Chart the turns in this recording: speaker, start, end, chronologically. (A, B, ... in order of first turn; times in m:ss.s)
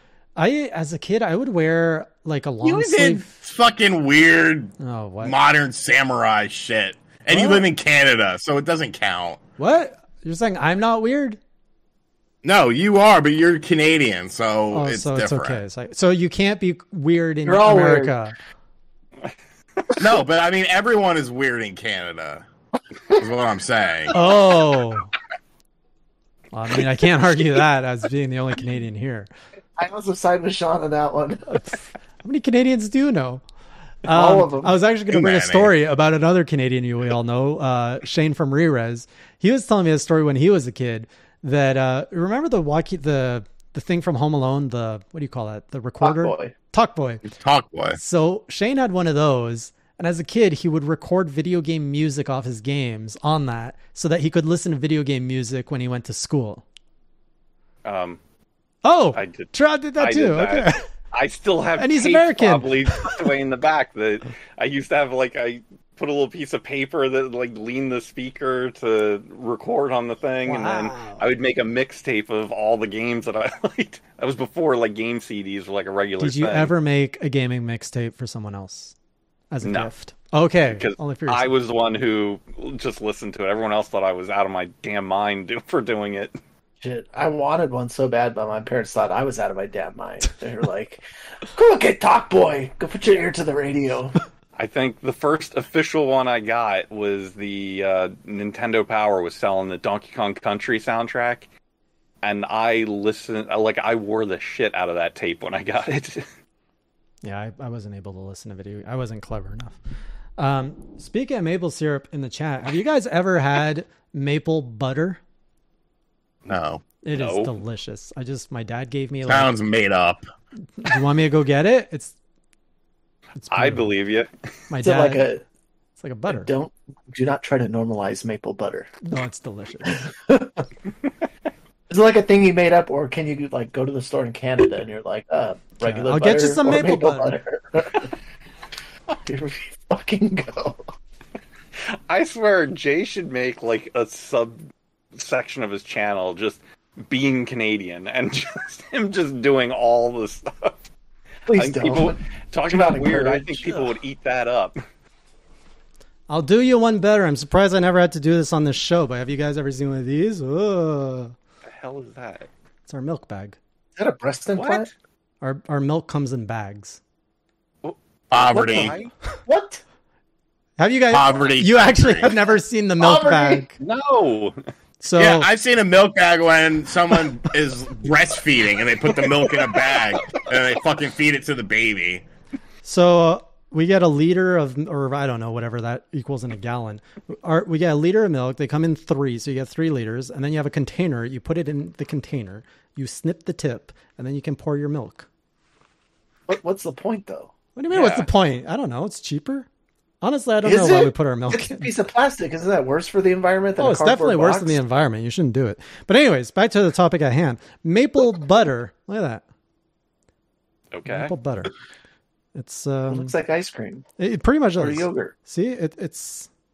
0:00.4-0:03.3 A
0:02.6-0:09.4 B
0:04.8-0:05.4 A
0:07.3-0:07.7 A
0:09.6-0:11.4 A
0:12.4-0:15.6 B
0:14.7-0:18.4 A
0:17.4-0:18.2 C
0:20.0-0:22.4 B
0:23.2-0:24.2 B
0:24.1-0:25.1 A
0:26.5-0:29.3 A
0:29.8-0:31.6 C
0:31.5-0:33.4 A
0:34.0-0:47.2 A
0:34.0-0:34.8 C
0:35.1-0:35.7 B
0:46.0-0:46.5 C
0:47.3-0:48.0 B
0:47.9-0:56.6 A
0:57.8-0:58.2 D
0:58.8-1:00.8 A
0:59.1-1:16.7 D
1:01.8-1:03.2 A
1:10.4-1:11.3 A
1:16.2-1:19.0 A
1:19.5-1:21.5 A
1:19.6-1:19.9 D
1:20.7-1:26.4 D
1:26.8-1:34.2 C
1:34.6-1:41.5 D
1:42.2-1:46.3 D
1:47.2-1:49.8 A
1:50.4-1:55.2 A
1:56.5-1:56.8 B
1:57.0-1:59.5 A
1:57.1-1:57.5 D
1:59.3-2:00.2 B
2:00.8-2:02.1 A
2:03.4-2:03.9 A
2:03.5-2:04.3 D
2:04.7-2:05.3 A
2:04.8-2:05.4 C
2:06.0-2:06.5 A
2:06.3-2:08.9 C
2:09.0-2:10.1 A
2:09.8-2:10.7 C
2:11.9-2:18.1 C
2:15.8-2:17.4 A
2:19.3-2:20.8 C
2:21.9-2:30.8 D
2:31.5-2:33.9 C
2:31.5-2:34.8 D
2:36.3-2:41.3 A
2:41.7-2:42.5 D
2:42.9-2:43.6 A
2:44.0-2:44.9 C
2:44.5-2:44.9 D
2:45.4-2:47.0 A
2:47.8-2:49.1 D
2:48.3-2:48.9 B
2:48.5-2:49.8 C
2:50.8-2:53.8 A
2:51.1-2:52.3 B
2:53.0-2:53.6 C
2:53.8-2:54.6 D
2:55.0-2:55.5 A
2:55.1-3:02.2 B
3:02.8-3:15.3 A
3:16.5-3:17.5 C
3:17.8-3:19.7 A
3:17.9-3:18.3 D
3:20.2-3:21.9 A
3:20.6-3:24.8 C
3:23.8-3:29.4 A
3:30.9-3:31.3 D
3:31.0-3:31.7 A
3:32.6-3:33.3 A
3:33.1-3:34.0 C
3:34.2-3:36.5 A
3:34.8-3:35.4 C